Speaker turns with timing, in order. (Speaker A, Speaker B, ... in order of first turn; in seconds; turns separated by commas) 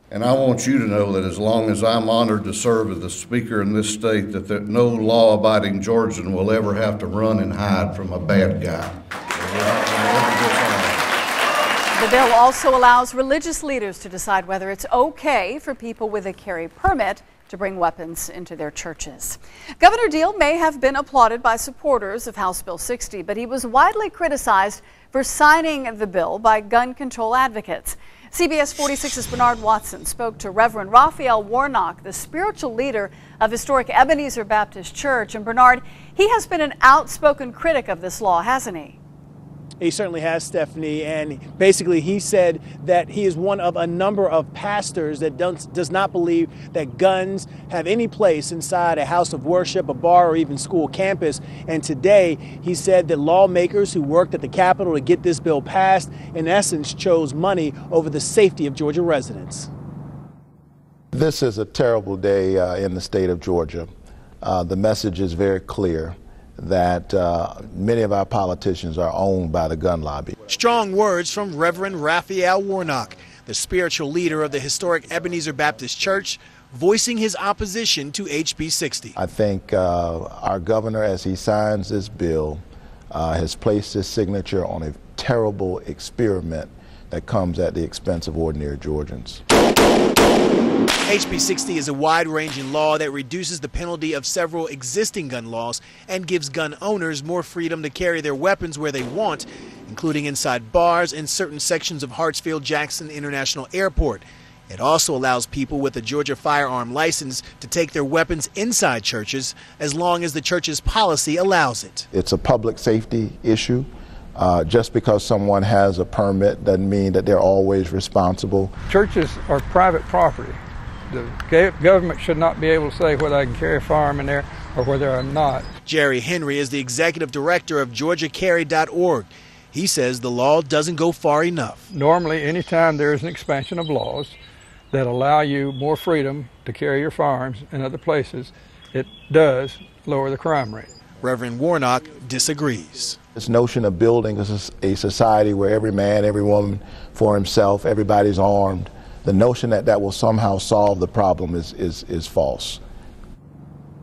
Speaker A: 0.1-11.1, Speaker B: 12.0-39.0, Speaker C: 39.8-59.7, Speaker D: 61.1-63.9, Speaker D: 64.4-70.4, Speaker C: 70.5-79.2, Speaker D: 79.2-89.4, Speaker C: 91.0-112.1, Speaker D: 112.1-118.7, Speaker E: 118.9-125.7, Speaker C: 125.8-131.9, Speaker E: 131.9-134.4, Speaker E: 134.9-140.9, Speaker C: 141.2-143.2, Speaker D: 143.4-152.8